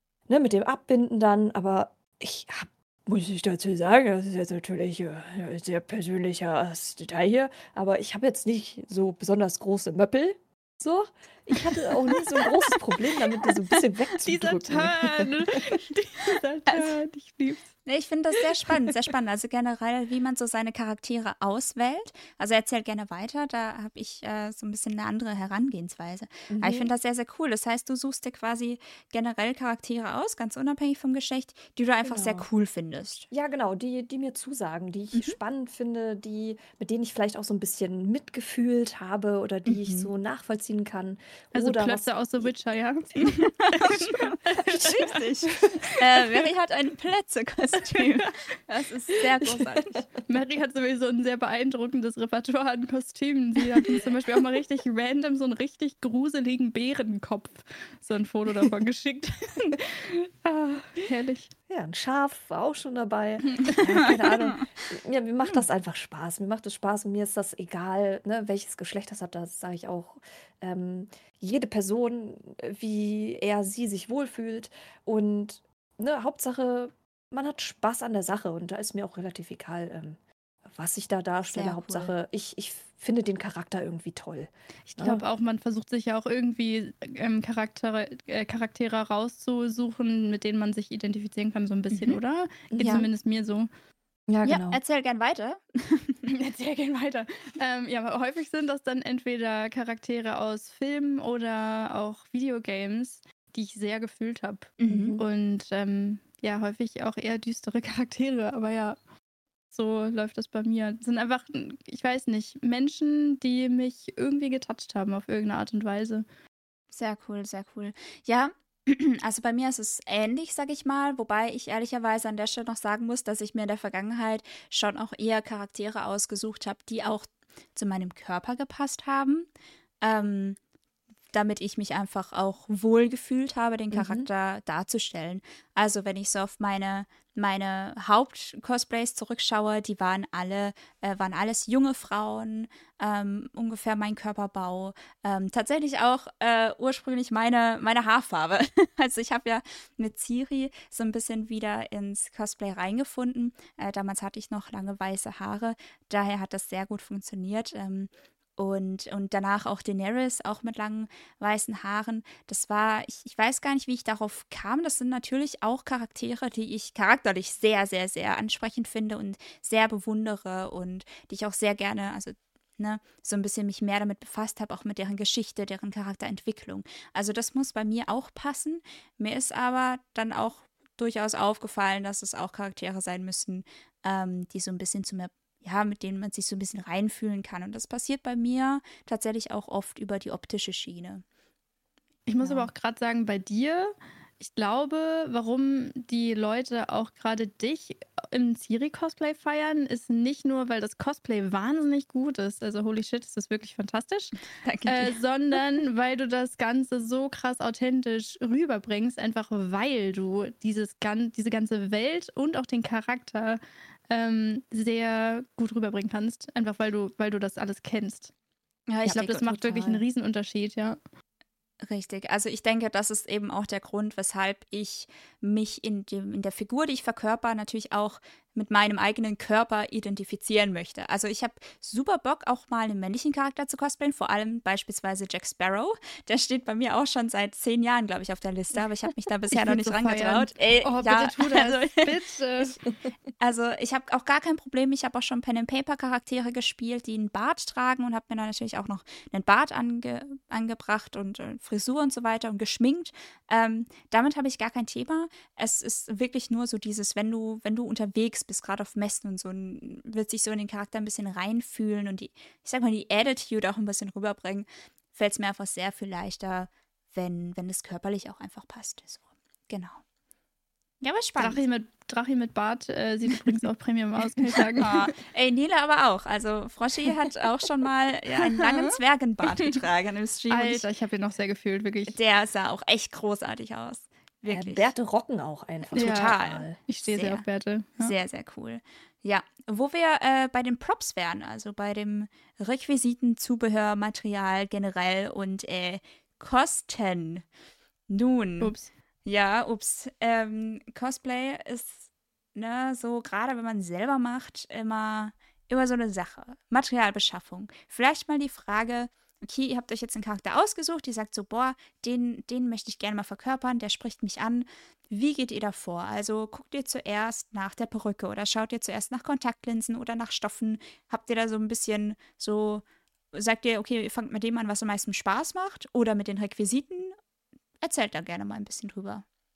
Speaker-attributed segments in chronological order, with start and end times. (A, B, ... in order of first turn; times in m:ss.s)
0:00.3-0:15.7 A
0:14.2-0:17.7 B
0:17.8-0:33.3 C
0:26.5-0:26.9 A
0:32.0-0:32.5 A
0:33.3-0:42.5 A
0:39.6-0:40.1 C
0:41.5-0:45.9 B
0:43.2-0:50.0 C
0:49.4-0:50.2 A
0:50.3-1:01.5 B
1:01.7-1:25.2 A
1:21.5-1:22.1 C
1:24.9-1:33.7 B
1:32.7-1:33.1 A
1:32.8-1:33.0 C
1:34.3-1:34.8 A
1:34.4-1:36.2 C
1:36.2-1:49.0 B
1:44.8-1:45.2 C
1:44.9-1:45.2 A
1:49.7-1:56.2 B
1:56.9-2:09.5 C
2:10.0-2:10.6 C
2:11.3-3:11.2 C
2:13.9-2:14.3 A
3:12.2-3:38.3 B
3:12.4-3:12.7 A
3:24.6-3:25.2 C
3:38.9-3:39.9 C
3:39.0-3:41.0 B
3:39.8-3:40.0 A
3:41.8-4:02.7 C
3:59.5-4:02.8 B
4:03.4-4:30.0 C
4:31.0-4:31.6 C
4:31.4-4:35.0 B
4:34.8-4:40.9 C
4:38.6-4:39.0 B
4:40.5-4:42.2 B
4:42.1-4:44.9 C
4:44.5-4:46.8 A
4:45.9-4:47.4 C
4:45.9-4:48.1 B
4:48.0-4:57.4 C
4:58.1-4:58.7 C
4:58.6-4:58.9 B
4:59.2-5:27.1 C
5:27.8-5:29.2 C